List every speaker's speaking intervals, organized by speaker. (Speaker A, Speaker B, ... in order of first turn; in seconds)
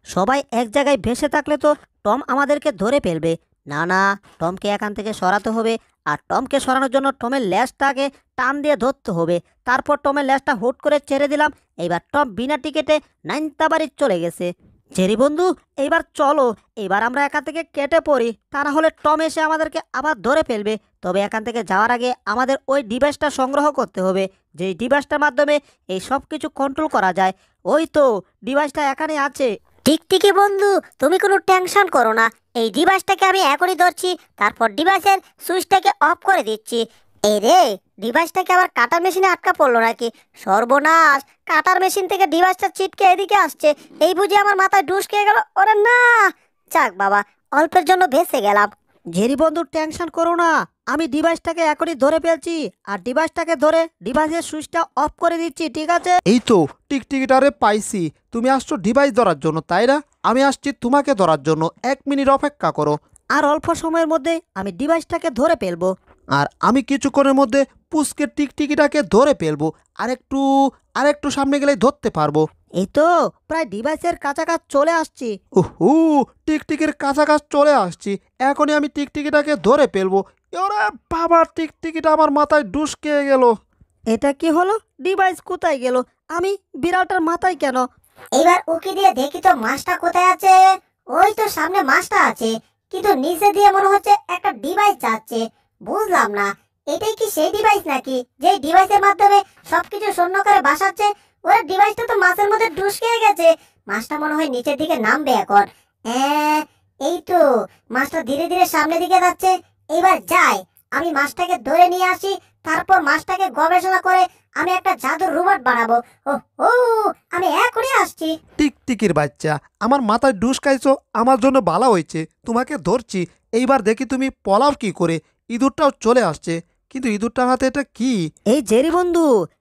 Speaker A: 0.1-29.5, 49.1-56.2, 63.4-65.9, 72.8-75.3, 84.1-87.8, 128.5-129.3
Speaker B: 29.9-48.7, 88.4-90.6, 91.1-107.4, 107.9-118.3
Speaker C: 56.3-63.0, 66.4-70.4, 71.0-72.4, 75.6-83.5, 118.6-128.2